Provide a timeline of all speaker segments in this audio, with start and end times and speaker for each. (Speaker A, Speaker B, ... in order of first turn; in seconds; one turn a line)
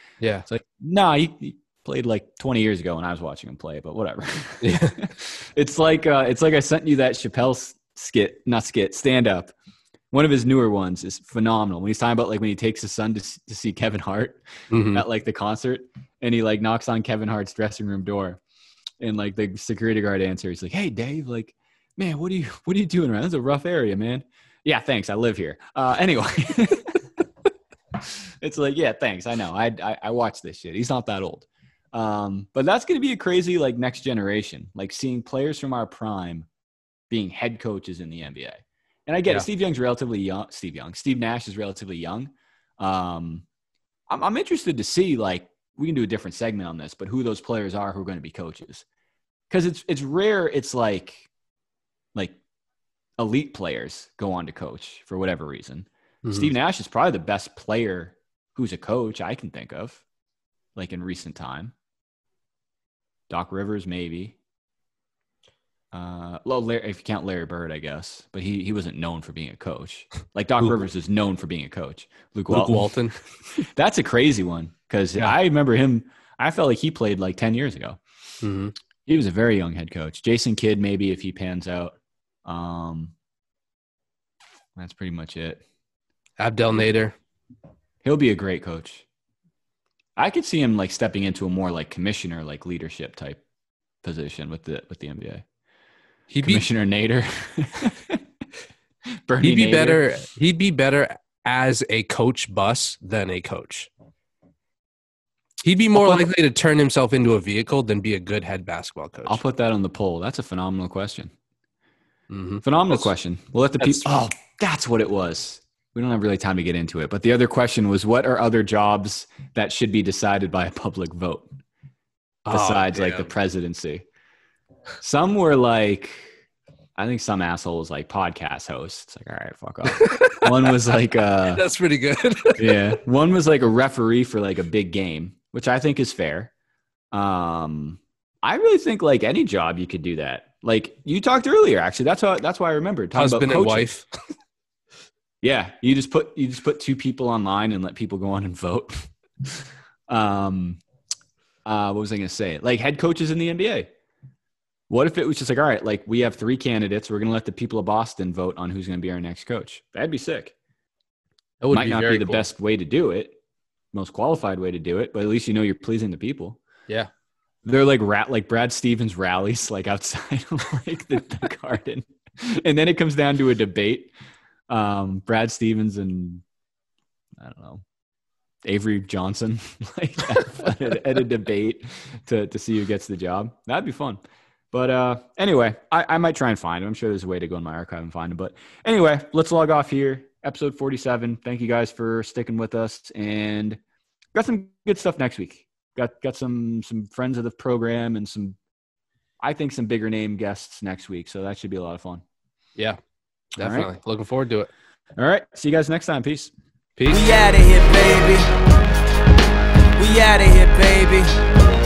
Speaker A: 0.2-0.5
Speaker B: 0.5-9.5
Speaker A: 4.6-5.1
Speaker B: 10.1-18.4
Speaker A: 14.7-15.0
Speaker B: 19.0-27.2
Speaker B: 28.0-36.5
Speaker B: 37.1-43.5
Speaker B: 44.1-48.9
Speaker B: 49.5-51.3
Speaker B: 53.2-60.0
Speaker A: 56.2-56.5
Speaker B: 60.8-61.7
Speaker B: 63.3-64.4
Speaker B: 65.9-72.9
Speaker A: 72.5-73.7
Speaker B: 73.7-78.0
Speaker A: 78.4-78.7
Speaker B: 79.1-83.1
Speaker B: 84.8-85.6
Speaker A: 86.4-87.2
Speaker B: 88.0-89.0
Speaker B: 90.2-93.4
Speaker B: 94.0-95.5
Speaker A: 96.3-96.6
Speaker B: 96.4-98.2
Speaker B: 99.3-100.2
Speaker A: 99.4-103.9
Speaker A: 105.6-109.4
Speaker B: 106.0-106.2
Speaker B: 109.2-111.3
Speaker A: 112.3-113.1
Speaker B: 112.6-121.5
Speaker A: 113.8-114.2
Speaker B: 122.5-124.0
Speaker A: 122.5-123.3
Speaker B: 125.0-126.3
Speaker B: 127.0-131.7
Speaker A: 129.9-132.9
Speaker B: 132.6-136.5
Speaker B: 137.1-143.9
Speaker A: 143.2-144.1
Speaker B: 145.4-150.8
Speaker B: 151.7-153.9
Speaker B: 154.9-160.5
Speaker A: 161.6-162.5
Speaker B: 161.7-163.4
Speaker B: 163.9-166.6
Speaker B: 167.7-174.1
Speaker B: 174.7-176.4
Speaker B: 177.4-177.8
Speaker B: 178.6-184.2
Speaker B: 184.7-193.8
Speaker B: 194.3-198.6
Speaker B: 199.4-202.2
Speaker A: 203.6-204.7
Speaker B: 203.6-203.9
Speaker B: 205.2-206.5
Speaker A: 207.0-207.2
Speaker C: 207.1-208.5
Speaker C: 210.0-211.4